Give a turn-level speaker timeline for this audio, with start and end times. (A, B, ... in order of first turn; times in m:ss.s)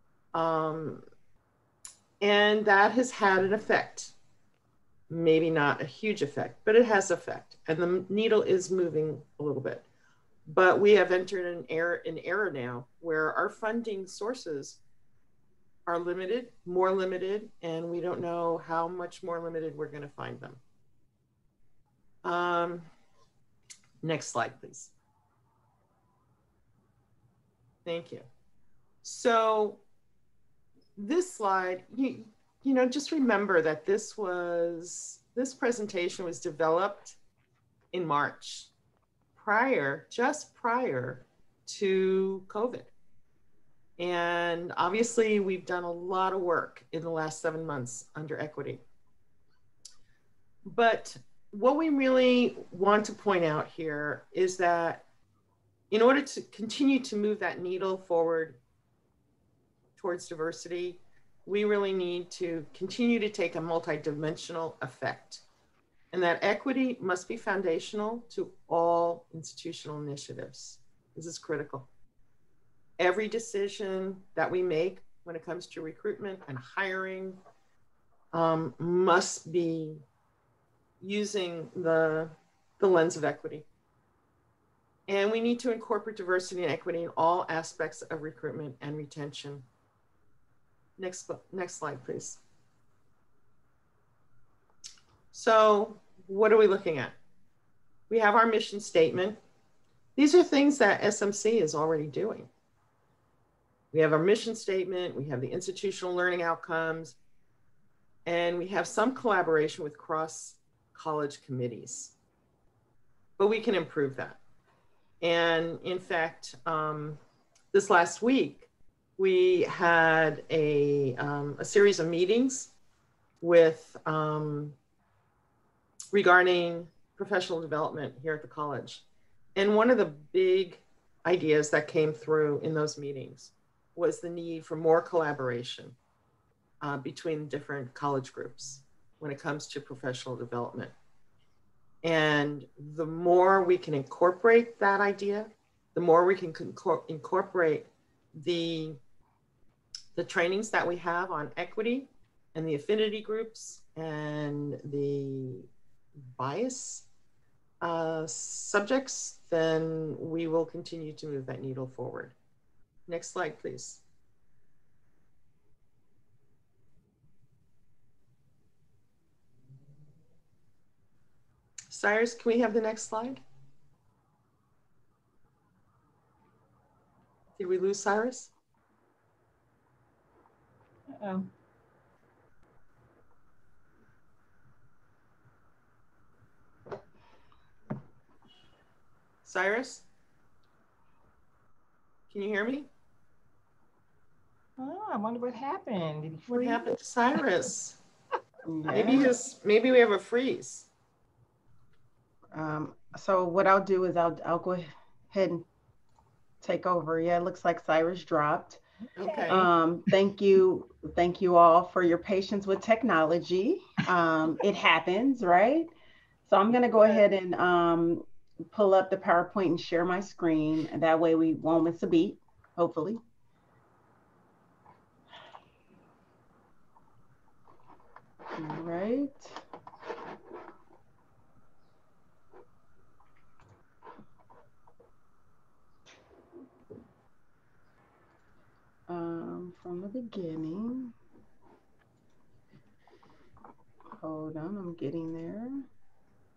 0:00.3-0:01.0 A
0:02.2-0:04.1 A
0:05.1-0:09.8 A
0:10.5-0:14.8 A
0:15.9-0:20.6 A
0:22.2-0:22.9 A
0:24.0-0:24.9 A
0:27.8-0:28.3 A
0:29.0-0:29.8 A
0:31.0-0:37.2 A
0:37.9-0:38.7 A
0:39.4-0:42.9 A
0:44.0-0:48.8 A
0:50.6-0:55.0 A
0:55.9-0:58.6 A
1:00.0-1:05.4 A
1:06.1-1:11.9 A
1:13.0-1:17.4 A
1:18.3-1:20.0 A
1:21.0-1:23.7 A
1:25.1-1:29.7 A
1:31.0-1:32.4 A
1:35.3-1:37.2 A
1:38.1-1:39.4 A
1:40.2-1:42.5 A
1:43.9-1:47.2 A
1:48.2-1:52.1 A
1:53.4-1:54.4 A
1:55.2-1:57.2 A
1:57.7-2:02.7 A
2:03.4-2:04.8 A
2:06.1-2:16.0 A
2:16.8-2:20.9 A
2:22.0-2:29.0 A
2:30.2-2:35.7 A
2:36.4-2:37.1 A
2:37.8-2:42.4 A
2:43.1-2:44.0 A
2:51.9-2:53.4 A
2:57.6-2:58.5 A
3:01.1-3:01.5 B
3:09.4-3:10.0 A
3:12.3-3:12.9 A
3:14.8-3:16.9 B
3:16.5-3:18.0 A
3:18.7-3:19.3 C
3:18.9-3:20.9 A
3:22.5-3:25.6 C
3:26.6-3:28.8 C
3:29.2-3:29.7 A
3:29.2-3:29.6 B
3:29.5-3:35.9 C
3:36.5-3:43.2 C
3:48.6-3:49.6 C
3:59.1-4:01.1 C
4:04.2-4:05.9 C